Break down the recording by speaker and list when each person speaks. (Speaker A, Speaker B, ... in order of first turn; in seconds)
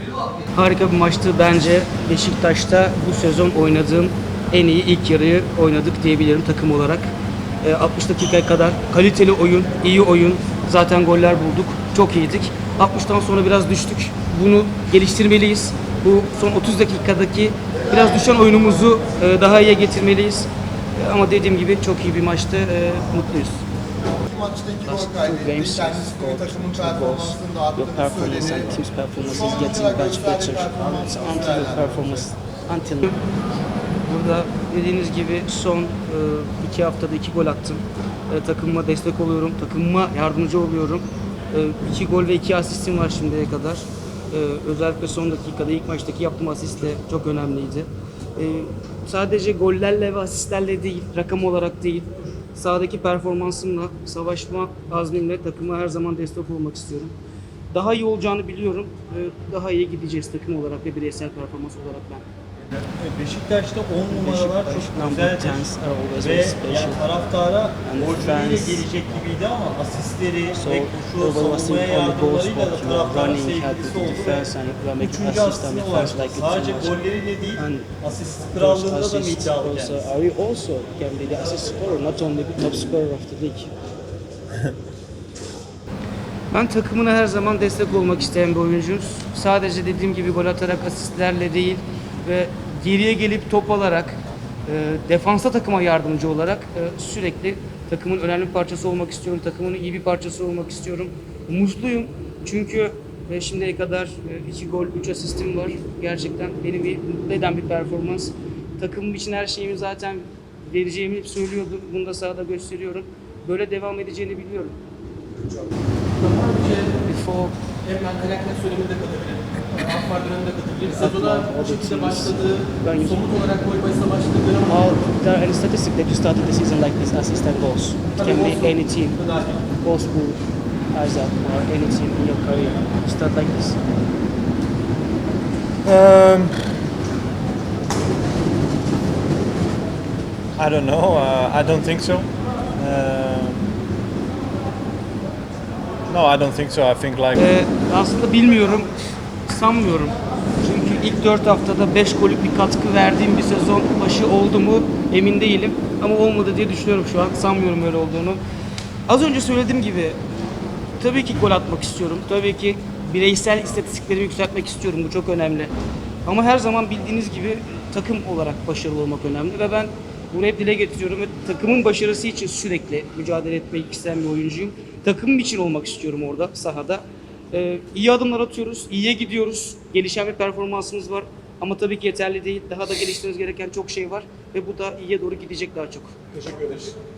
Speaker A: 0.5-23.6, 24.8-33.2, 34.0-57.2, 57.7-62.3, 64.1-67.1, 67.8-68.9, 70.6-77.0, 77.6-77.9, 78.6-83.7, 86.5-114.8, 117.0-117.6, 120.8-123.4, 124.7-130.4, 130.9-133.8, 147.3-158.4, 159.1-160.2, 161.0-165.7, 166.3-186.2
Speaker B: 24.2-32.1
Speaker C: 62.8-80.1
Speaker D: 116.2-117.0, 117.8-124.8, 128.2-129.6
Speaker E: 135.8-136.8, 140.6-143.7, 146.1-147.5, 186.3-186.9